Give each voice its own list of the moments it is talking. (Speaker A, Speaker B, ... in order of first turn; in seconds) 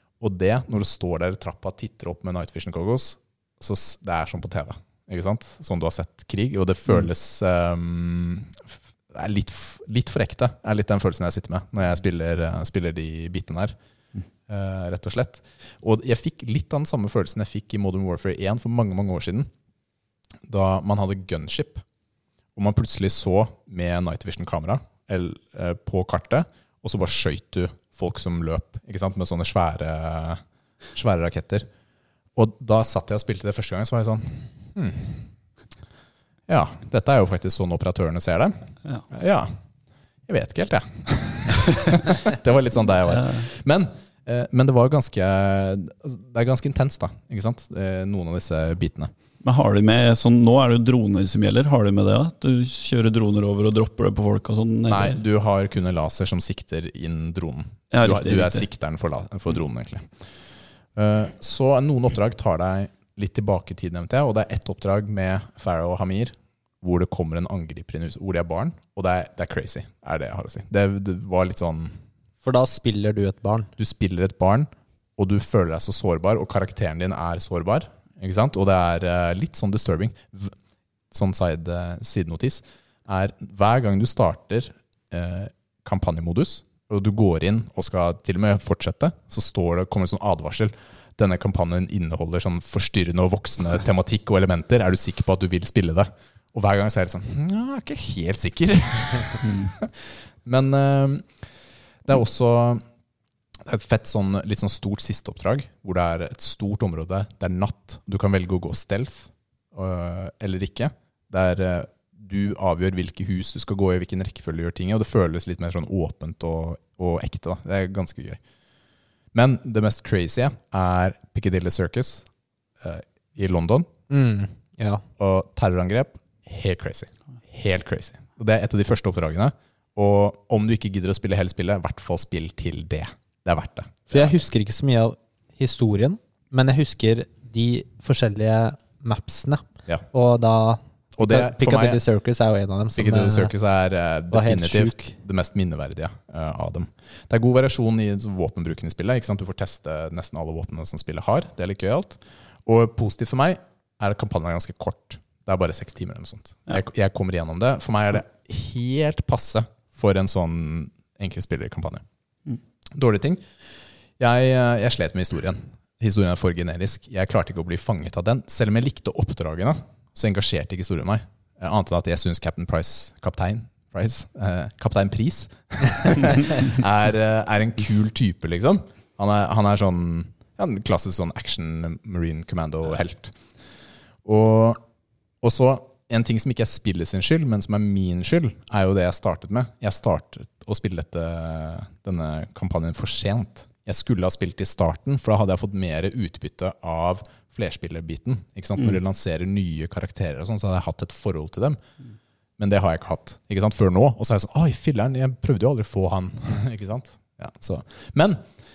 Speaker A: 0.2-13.8, 14.5-19.5, 20.5-21.8, 22.6-30.4, 30.9-31.7, 32.4-35.3, 36.5-38.5, 39.1-39.5, 40.3-49.1, 54.9-60.1, 61.0-72.0, 73.8-80.5, 81.1-101.3, 102.0-102.8, 103.6-118.4, 119.3-122.3, 122.8-123.9, 125.2-134.4, 141.2-142.0, 143.0-162.0, 162.9-163.4, 164.2-183.3, 184.2-184.8, 185.4-201.8, 202.6-208.4
Speaker B: 43.1-43.4, 49.4-55.2, 57.9-58.6
Speaker C: 72.4-73.7, 124.1-125.0, 134.1-143.5, 144.3-145.2